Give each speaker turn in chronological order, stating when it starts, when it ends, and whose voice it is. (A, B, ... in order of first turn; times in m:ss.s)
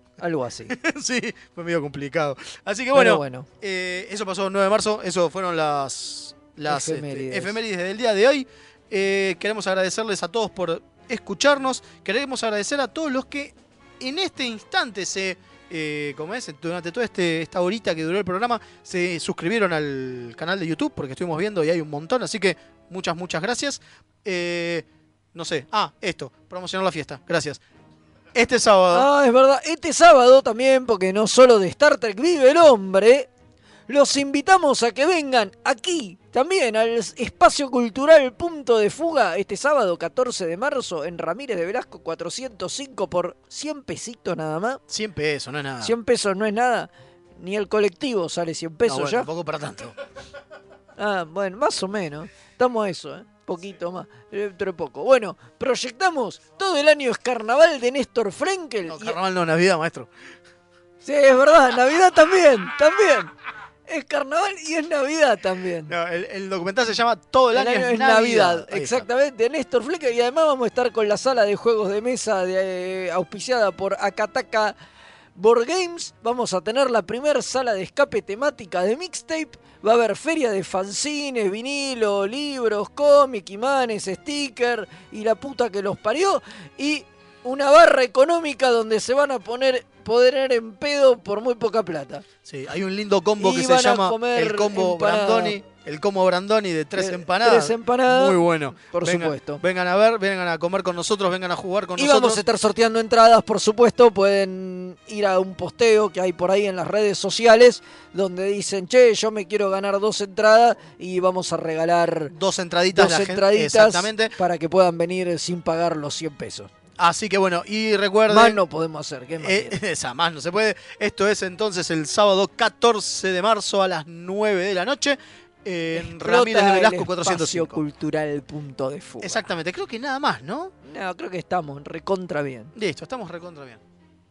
0:00.2-0:00.7 A
0:00.7-0:27.6 B
0:02.9-0:03.5 A
0:06.7-0:07.6 A
0:28.3-0:29.1 B
0:28.9-0:33.3 A
0:33.9-0:44.8 A
0:44.9-0:45.9 B
0:45.8-0:49.3 A
0:48.8-0:49.9 B
0:51.0-0:59.2 A
0:58.9-1:00.1 B
1:01.0-1:03.3 A
1:03.9-1:05.9 A
1:05.9-1:09.1 B
1:07.5-1:14.7 A
1:15.4-1:32.2 A
1:32.4-1:42.4 B
1:33.4-1:35.5 A
1:37.0-1:39.6 A
1:42.0-1:52.3 A
1:52.3-1:54.3 B
1:52.9-1:56.7 A
1:57.0-1:58.6 B
1:58.3-1:59.8 A
1:59.4-2:07.8 B
2:05.9-2:09.5 A
2:09.2-2:10.7 B
2:10.8-2:12.7 A
2:12.7-2:13.8 B